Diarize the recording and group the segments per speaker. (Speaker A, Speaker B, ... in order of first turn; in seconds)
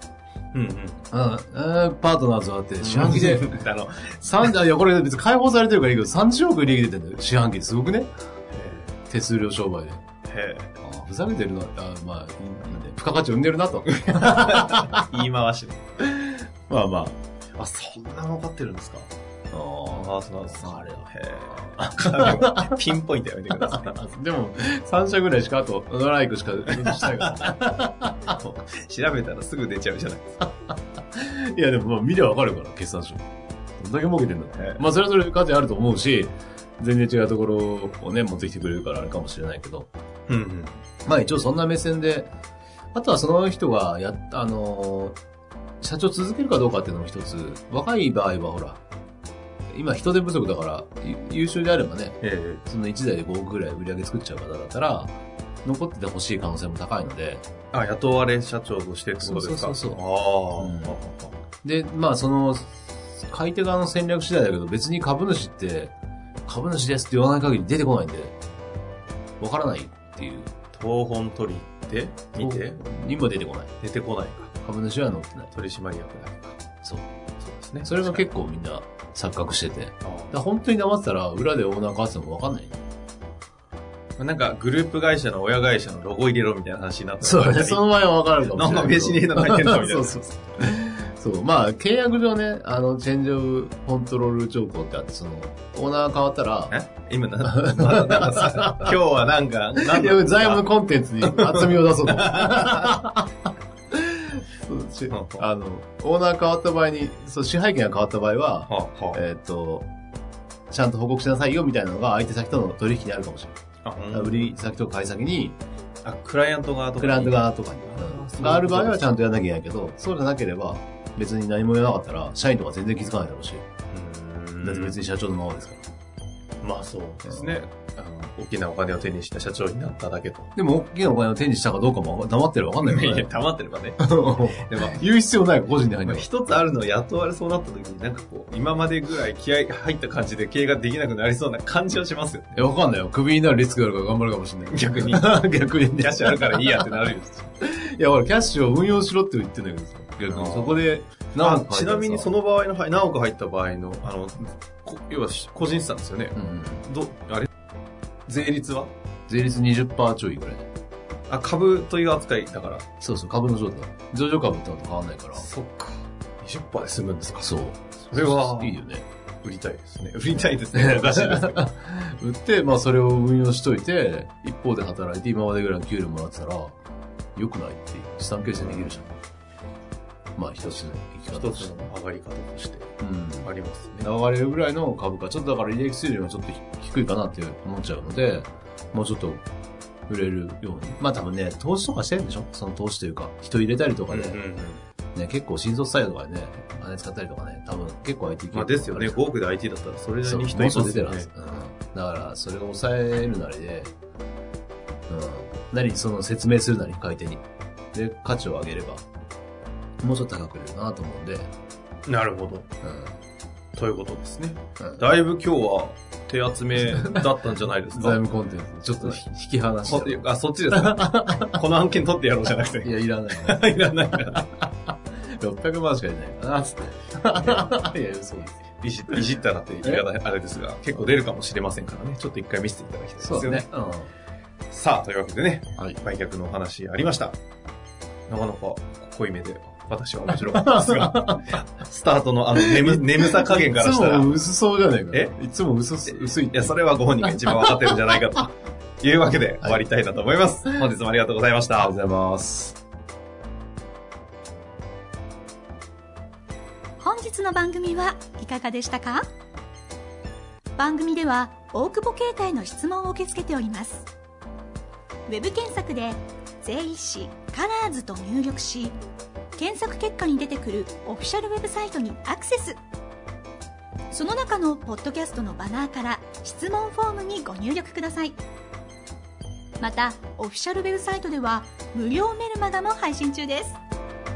Speaker A: 0.5-1.1, 2.8-4.5, 8.5-8.9, 10.3-10.7, 14.0-16.0, 17.6-19.1, 19.9-24.0, 26.9-27.5, 28.4-30.4, 34.5-34.8, 40.3-40.8, 52.2-52.6, 57.7-61.4, 70.7-72.8, 73.8-74.5, 75.5-76.6, 77.4-78.2, 80.0-80.4, 84.2-87.8, 88.5-90.3, 96.7-100.6, 101.2-103.0, 105.1-105.5, 108.7-109.2, 113.8-114.5, 116.0-119.1, 123.9-125.0, 126.6-130.5, 132.8-135.0, 136.0-142.6, 144.7-145.4, 146.0-147.5, 150.2-150.8, 151.4-157.5, 158.3-158.9, 161.3-162.9, 165.3-167.6, 168.1-168.8, 169.4-171.7, 178.6-179.0, 181.3-182.9, 183.4-184.1, 194.1-194.8, 198.5-201.3, 212.1-212.7, 213.8-218.2, 219.8-224.4, 228.8-233.7, 234.7-237.3, 238.3-244.4, 246.1-251.9
Speaker B: 1.1-3.6, 4.2-8.1, 9.1-10.0, 10.8-15.0, 16.0-17.2, 19.5-22.8, 23.5-28.3, 30.4-33.2, 33.8-39.9, 41.0-42.3, 42.9-45.2, 45.8-48.8, 49.7-55.1, 55.6-57.4, 59.2-60.0, 60.6-61.0, 61.6-65.9, 66.5-68.3, 69.4-70.5, 72.4-73.7, 74.6-75.5, 77.8-82.8, 87.2-96.8, 97.4-99.0, 99.8-103.3, 103.9-109.9, 110.7-113.6, 114.1-115.6, 117.0-123.6, 124.6-125.8, 127.3-127.6, 130.6-133.3, 134.0-136.3, 142.5-152.3, 156.3-156.9, 159.3-160.7, 163.0-165.4, 167.4-169.0, 170.7-176.8, 177.3-179.1, 180.3-181.9, 183.0-183.5, 184.0-189.4, 190.1-194.4, 195.1-199.2, 200.2-203.9, 205.1-209.0, 210.0-211.5, 212.8-213.1, 216.9-217.3, 217.9-221.6, 222.8-229.2, 233.2-234.1, 240.3-241.6, 242.5-248.3, 251.8-252.8
Speaker C: 257.0-259.2, 260.8-264.1, 265.3-269.0, 269.5-272.8, 274.1-278.4, 279.8-283.8